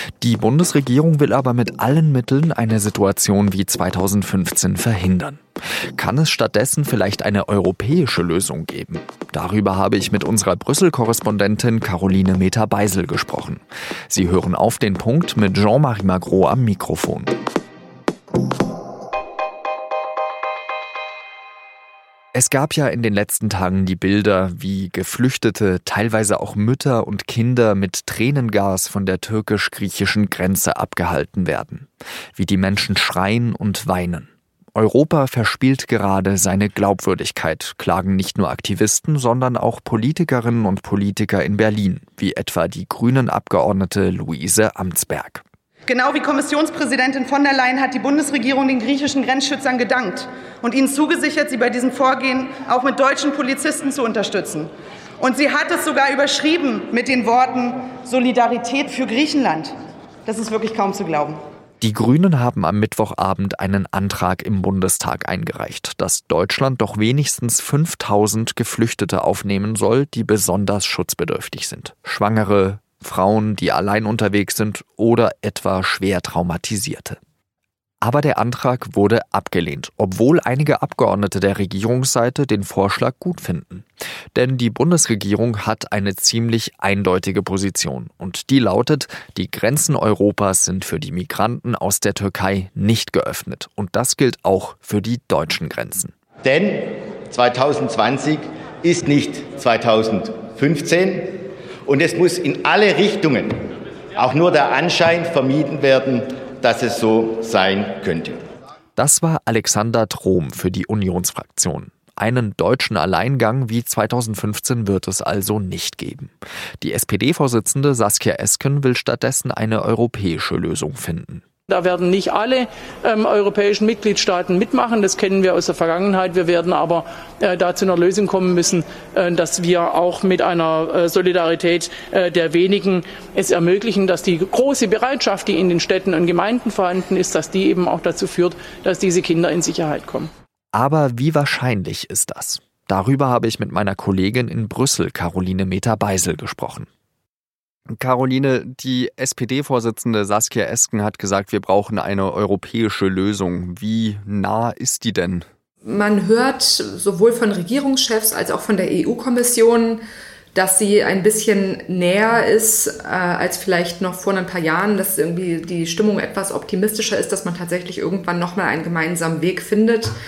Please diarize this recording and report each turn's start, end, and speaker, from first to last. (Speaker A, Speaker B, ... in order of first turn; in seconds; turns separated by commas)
Speaker A: 0.2-5.4, Speaker A: 6.0-17.3, Speaker A: 22.3-45.4, Speaker B: 45.9-54.7, Speaker B: 55.2-59.7, Speaker B: 60.3-61.4, Speaker A: 61.8-77.2, Speaker A: 78.0-96.1, Speaker C: 96.4-103.7, Speaker C: 104.2-108.4, Speaker A: 109.0-121.4, Speaker D: 121.7-140.3, Speaker A: 140.7-146.9, Speaker A: 147.9-155.4, Speaker E: 155.8-160.0, Speaker E: 160.6-170.1